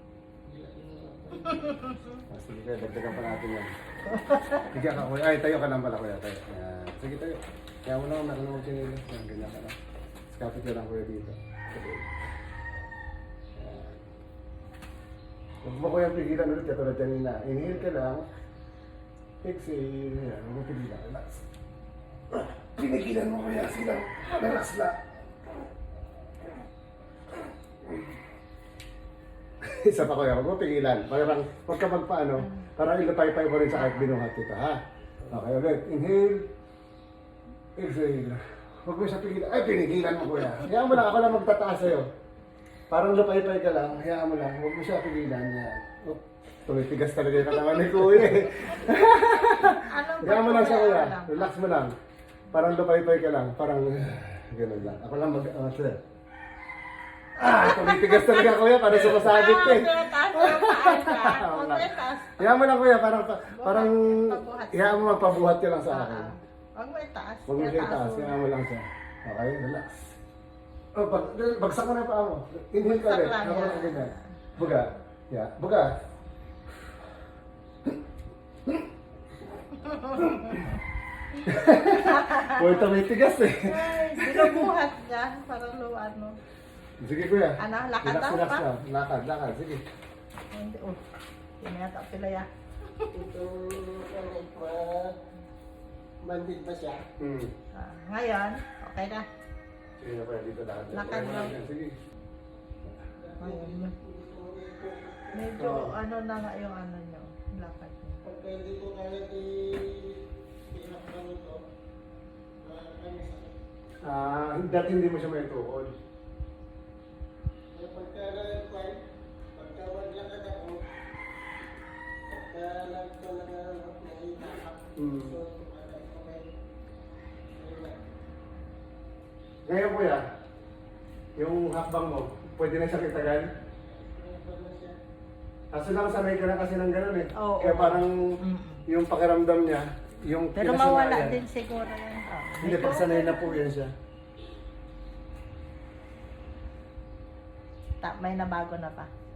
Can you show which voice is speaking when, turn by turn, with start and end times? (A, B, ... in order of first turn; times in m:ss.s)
0:00.5-0:02.0 A
0:01.5-0:02.2 B
0:02.3-0:03.7 C
0:04.1-0:04.7 B
0:04.7-0:09.8 C
0:10.3-0:12.1 C
0:13.6-0:14.0 C
0:15.6-0:18.3 C
0:19.4-0:21.5 C
0:22.3-0:25.0 C
0:29.6-0:36.5 C
0:33.8-0:34.0 B
0:37.8-0:42.1 C
0:42.9-0:51.9 C
0:49.7-0:51.5 B
0:52.5-0:56.0 C
0:57.4-1:06.3 C
0:57.5-1:02.5 B
1:03.6-1:08.4 B
1:07.5-1:10.2 C
1:10.9-1:16.0 C
1:12.8-1:14.3 B
1:19.8-1:20.7 B
1:20.2-1:20.7 C
1:21.4-1:22.9 B
1:21.5-1:24.7 C
1:23.6-1:26.4 B
1:27.0-1:29.8 C
1:27.6-1:28.6 B
1:30.5-1:31.0 B
1:31.6-1:33.1 B
1:33.1-1:35.2 A
1:36.2-1:37.0 A
1:37.2-1:37.6 C
1:37.7-1:39.3 B
1:40.0-1:42.0 C
1:40.9-1:41.6 B
1:43.2-1:45.6 A
1:43.4-1:43.9 B
1:45.3-1:48.2 B
1:45.6-1:45.9 C
1:48.2-1:51.6 A
1:52.6-1:53.6 A
1:54.0-1:55.9 C
1:57.8-1:59.0 A
1:59.6-2:00.9 A
2:02.3-2:06.5 A
2:05.0-2:05.4 C
2:07.5-2:08.0 A
2:09.7-2:10.2 C
2:11.4-2:13.5 C
2:13.9-2:15.0 A
2:15.7-2:21.4 C
2:17.4-2:18.8 B
2:20.6-2:23.6 B
2:22.6-2:23.9 C
2:28.0-2:29.1 B